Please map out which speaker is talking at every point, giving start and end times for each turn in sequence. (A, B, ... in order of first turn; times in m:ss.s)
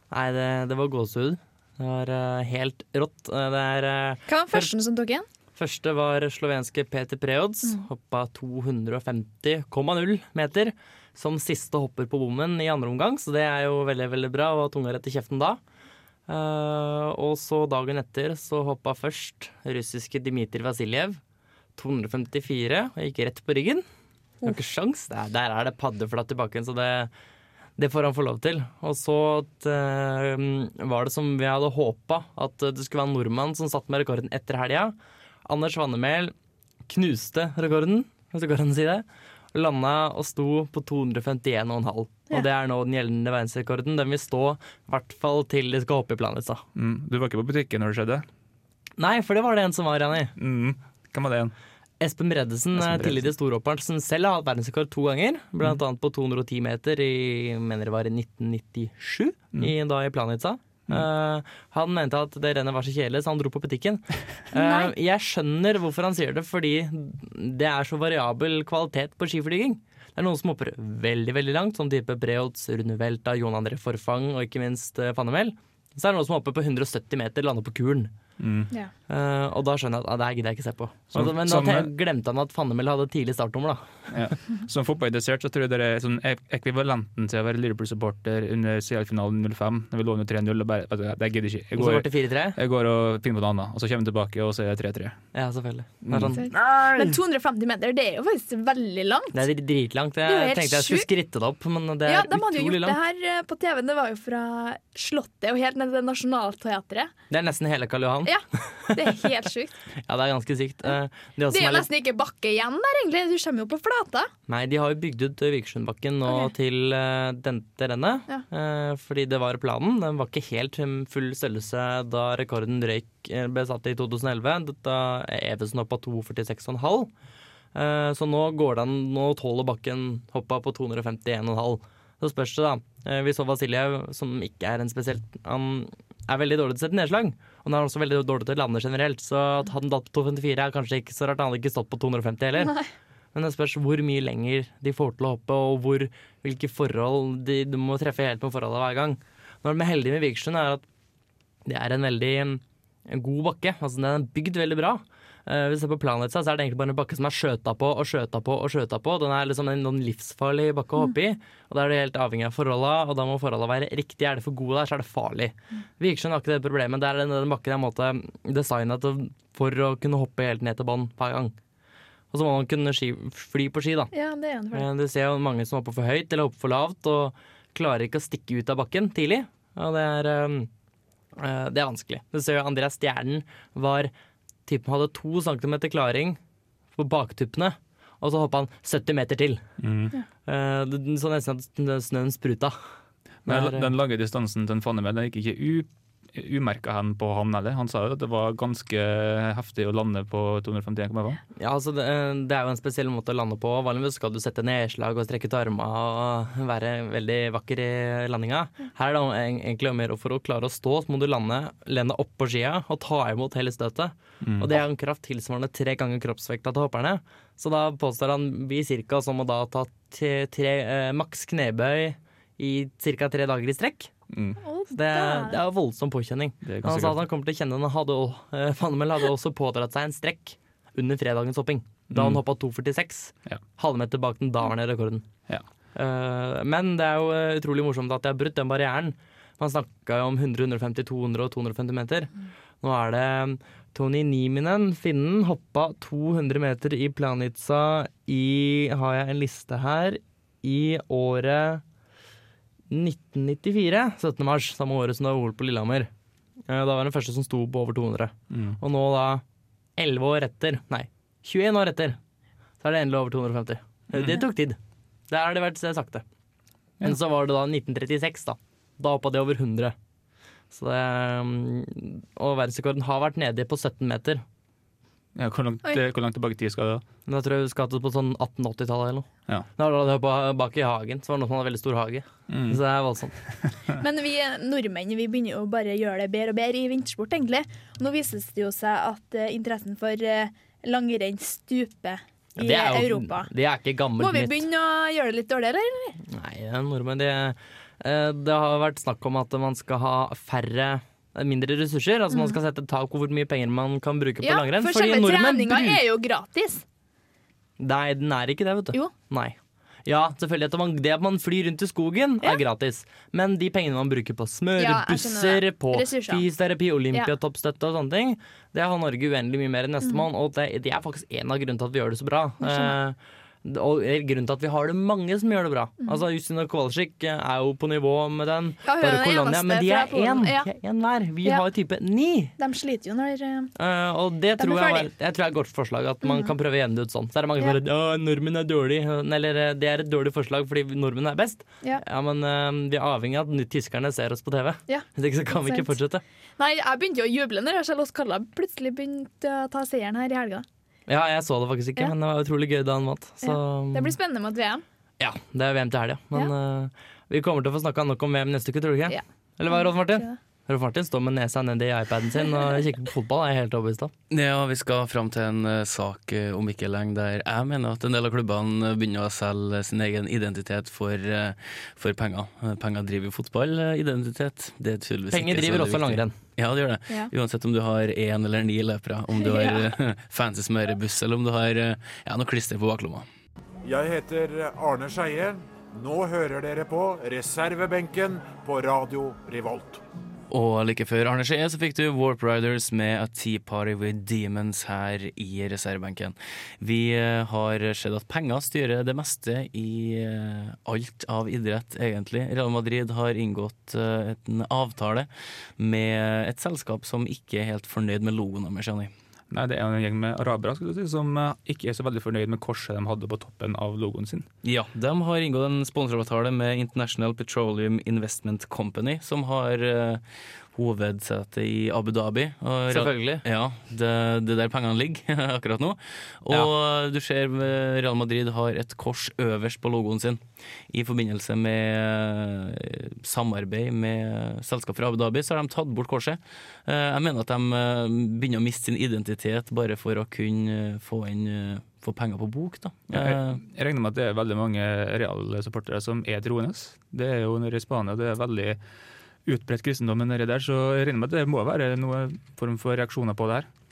0:00.1-0:04.7 A
0:04.3-0:05.3 B
0:05.6-0:15.6 A
0:16.3-0:21.2 A
0:21.8-0:23.8 A
0:24.4-0:27.1 A
0:27.8-0:35.0 A
0:35.5-0:36.3 A
0:36.9-0:46.6 A
0:46.8-0:48.3 C
0:49.0-0:50.3 A
0:50.4-0:51.5 C
0:52.0-1:18.1 A
0:52.8-0:53.3 C
1:04.5-1:04.9 B
1:18.4-1:18.7 C
1:19.1-1:23.8 A
1:21.1-1:21.9 C
1:24.1-1:35.2 C
1:31.8-1:32.6 A
1:35.3-1:37.1 A
1:36.0-1:36.4 C
1:36.4-1:39.5 B
1:39.3-1:43.0 A
1:40.2-1:41.1 B
1:42.0-1:47.1 B
1:47.3-1:49.2 A
1:48.2-1:49.8 B
1:50.1-1:51.9 A
1:51.5-1:54.3 B
1:54.5-2:07.1 A
1:56.3-1:56.5 B
2:07.8-2:22.8 A
2:23.3-2:30.8 A
2:31.7-2:51.5 A
2:52.3-2:54.1 A
2:54.1-2:54.9 B
2:54.7-3:00.7 A
3:01.4-3:04.1 A
3:04.7-3:06.4 A
3:07.0-3:09.6 A
3:09.8-3:10.2 C
3:10.5-3:12.8 A
3:13.4-3:21.4 C
3:13.5-3:13.9 A
3:21.6-3:44.1 A
3:34.4-3:34.8 C
3:44.3-3:44.6 C
3:44.6-3:45.6 B
3:44.9-3:55.2 A
3:46.6-3:47.3 C
3:52.1-3:52.4 C
3:56.0-4:11.8 A
4:12.9-4:16.1 A
4:16.7-4:19.4 A
4:18.5-4:18.8 C
4:20.0-4:22.2 A
4:22.8-4:24.8 A
4:24.1-4:24.4 C
4:25.3-4:26.2 A
4:27.0-4:30.0 A
4:30.7-4:34.4 A
4:35.4-4:37.0 C
4:37.3-4:43.4 A
4:42.5-4:42.8 C
4:44.0-4:53.5 B
4:52.6-4:54.6 A
4:54.2-4:56.2 B
4:56.3-5:06.0 A
5:02.3-5:02.6 B
5:04.4-5:06.8 B
5:07.8-5:32.6 A
5:14.8-5:16.5 B
5:22.6-5:23.0 B
5:28.8-5:30.7 B
5:32.6-5:33.7 B
5:33.8-5:46.2 A
5:34.6-5:35.1 B
5:36.2-5:36.6 B
5:44.9-5:45.9 B
5:46.6-5:50.6 B
5:51.1-5:54.2 A
5:53.4-5:54.8 B
5:55.2-6:04.1 A
5:59.1-6:00.4 B
6:04.3-6:23.3 D
6:15.3-6:16.3 A
6:19.4-6:19.9 B
6:23.8-6:30.0 E
6:30.5-6:49.1 D
6:49.5-6:54.5 C
6:54.6-7:00.2 D
7:00.7-7:23.6 D
7:02.9-7:03.4 A
7:23.1-7:28.8 C
7:29.4-7:33.7 C